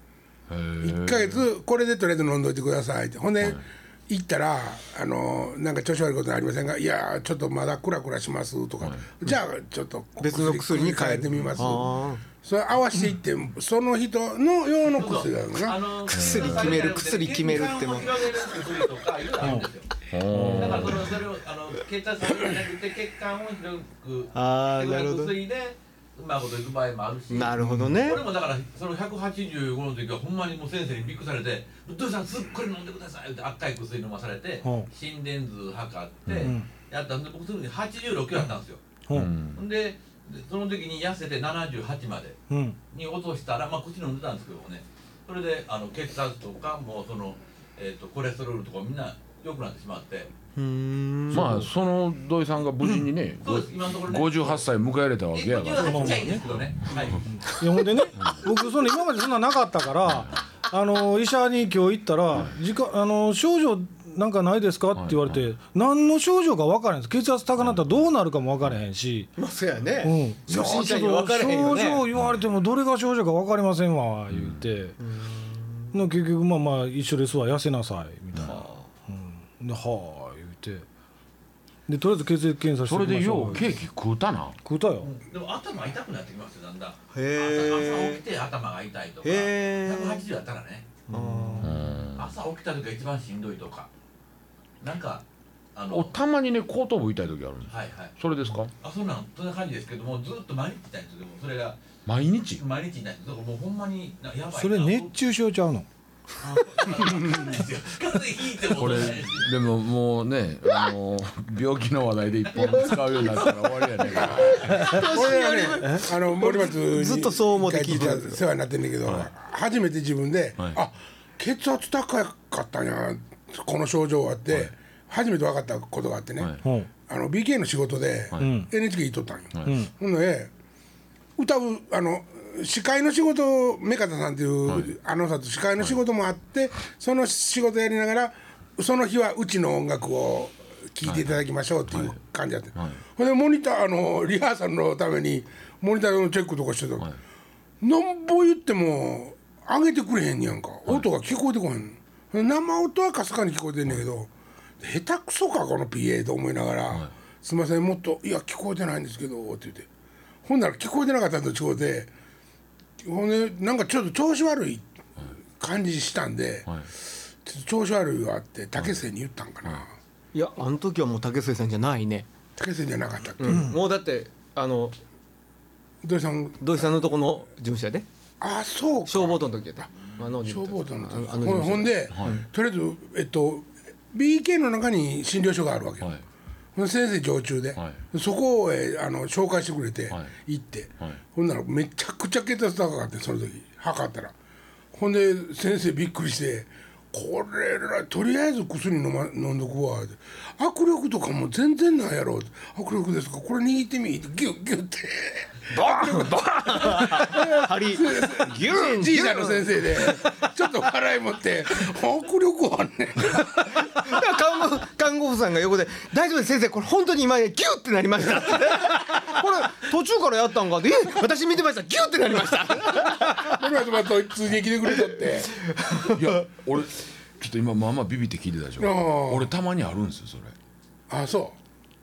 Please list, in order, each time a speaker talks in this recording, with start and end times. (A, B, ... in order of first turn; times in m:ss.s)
0:00.5-0:01.4 A
0:00.8-0:15.8 B
0:10.2-0:12.2 C
0:14.9-0:20.0 D
0:16.1-0:18.2 C
0:16.1-0:16.8 A
0:19.4-0:19.7 E
0:20.1-0:21.2 A
0:20.3-0:21.0 E
0:20.5-0:38.8 D
0:24.3-0:25.4 C
0:27.3-0:28.2 C
0:34.6-0:34.9 E
0:36.3-0:36.5 A
0:36.3-0:36.7 E
0:39.1-0:39.6 A
0:39.6-0:42.4 D
0:42.5-0:42.8 E
0:42.9-0:50.3 D
0:50.6-0:51.6 C
0:51.3-0:57.2 A
0:51.3-0:51.7 E
0:53.4-0:54.6 D
0:55.3-0:57.3 D
0:55.8-0:56.4 E
0:57.2-1:09.3 E
0:58.2-0:58.4 A
1:00.1-1:00.4 A
1:04.9-1:05.4 A
1:07.6-1:08.0 A
1:09.4-1:12.0 C
1:10.0-1:15.0 E
1:12.2-1:12.4 A
1:14.3-1:14.6 A
1:15.0-1:15.9 C
1:15.9-1:20.9 E
1:18.4-1:18.8 C
1:21.9-1:23.8 E
1:22.8-1:24.6 A
1:24.6-1:25.1 E
1:25.0-1:31.0 D
1:27.1-1:28.2 C
1:29.2-1:30.2 C
1:31.1-1:31.8 E
1:31.1-1:31.8 C
1:31.6-1:32.3 A
1:32.2-1:33.9 D
1:34.8-1:35.2 D
1:35.8-1:36.2 D
1:35.9-1:38.7 A
1:37.7-1:38.1 D
1:38.8-1:41.8 D
1:42.0-1:42.6 A
1:42.6-1:45.1 D
1:44.5-1:45.9 E
1:46.4-1:49.5 D
1:48.8-1:55.0 A
1:54.2-2:06.5 B
1:54.4-1:58.4 C
2:06.4-2:06.6 A
2:06.6-2:06.9 E
2:07.1-2:10.5 B
2:08.4-2:08.7 E
2:09.5-2:09.8 A
2:09.6-2:09.9 E
2:11.4-2:27.1 B
2:21.0-2:21.4 A
2:22.8-2:23.0 A
2:27.8-2:39.9 B
2:40.4-2:42.1 B
2:43.0-2:44.9 B
2:45.6-2:49.9 B
2:50.3-2:52.3 C
2:52.6-2:53.7 B
2:53.4-2:55.0 C
2:56.0-2:57.0 B
2:56.6-2:58.0 C
2:58.4-3:06.1 B
2:59.1-3:02.4 C
3:02.1-3:02.4 A
3:06.8-3:14.3 B
3:14.9-3:33.8 B
3:25.7-3:30.2 C
3:33.8-3:43.6 C
3:43.4-3:45.5 B
3:45.6-3:46.4 C
3:46.1-3:50.5 A
3:48.8-3:49.5 B
3:51.1-3:51.6 B